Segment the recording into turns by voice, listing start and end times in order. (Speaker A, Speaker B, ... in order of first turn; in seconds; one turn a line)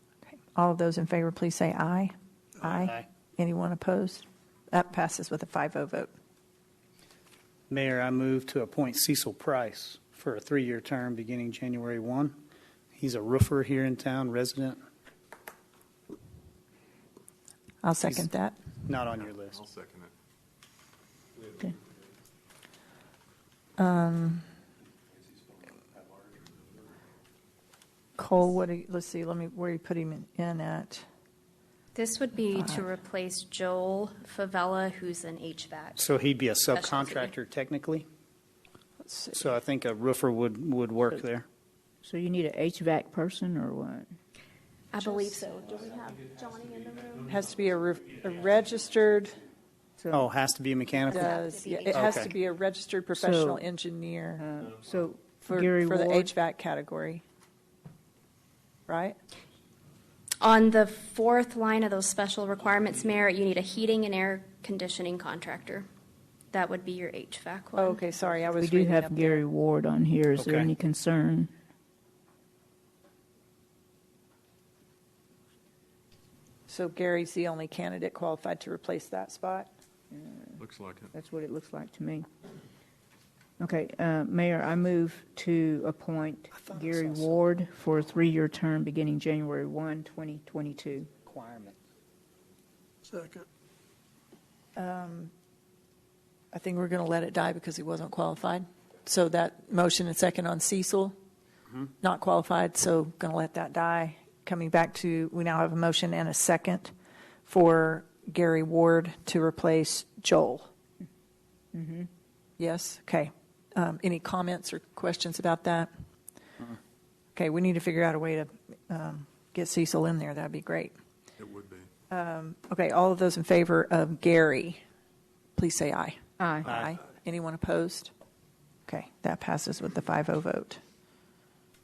Speaker A: 0.5-6.1
Speaker B: 2.6-3.0
Speaker B: 7.7-12.4
Speaker B: 12.9-14.8
Speaker A: 17.8-18.6
Speaker B: 18.9-19.6
Speaker C: 19.1-20.1
Speaker A: 23.8-24.4
Speaker A: 28.2-31.0
Speaker D: 31.9-36.0
Speaker B: 36.0-38.0
Speaker D: 36.7-37.3
Speaker A: 39.0-39.4
Speaker B: 39.3-41.4
Speaker E: 42.0-44.2
Speaker D: 44.9-47.4
Speaker A: 47.3-49.4
Speaker E: 50.0-50.2
Speaker B: 50.1-51.3
Speaker D: 51.0-52.2
Speaker A: 51.1-54.4
Speaker B: 51.9-52.3
Speaker E: 53.1-53.6
Speaker E: 54.4-56.3
Speaker A: 55.4-57.2
Speaker A: 58.9-59.1
Speaker D: 60.4-65.9
Speaker D: 66.5-68.3
Speaker A: 67.8-69.4
Speaker E: 68.6-71.5
Speaker D: 68.9-69.3
Speaker B: 70.3-70.7
Speaker A: 76.7-79.7
Speaker E: 80.1-80.6
Speaker C: 80.6-81.1
Speaker E: 81.1-82.2
Speaker E: 83.6-91.1
Speaker B: 86.7-87.3
Speaker B: 91.2-91.8
Speaker A: 94.8-95.3
Speaker A: 96.5-101.1
Speaker A: 102.0-106.9
Speaker A: 107.5-110.7
Speaker E: 111.7-112.1
Speaker A: 112.6-115.9
Speaker A: 117.3-120.9
Speaker C: 121.4-121.9
Speaker A: 122.1-124.8
Speaker A: 125.6-128.1
Speaker E: 126.4-126.7
Speaker A: 128.9-130.8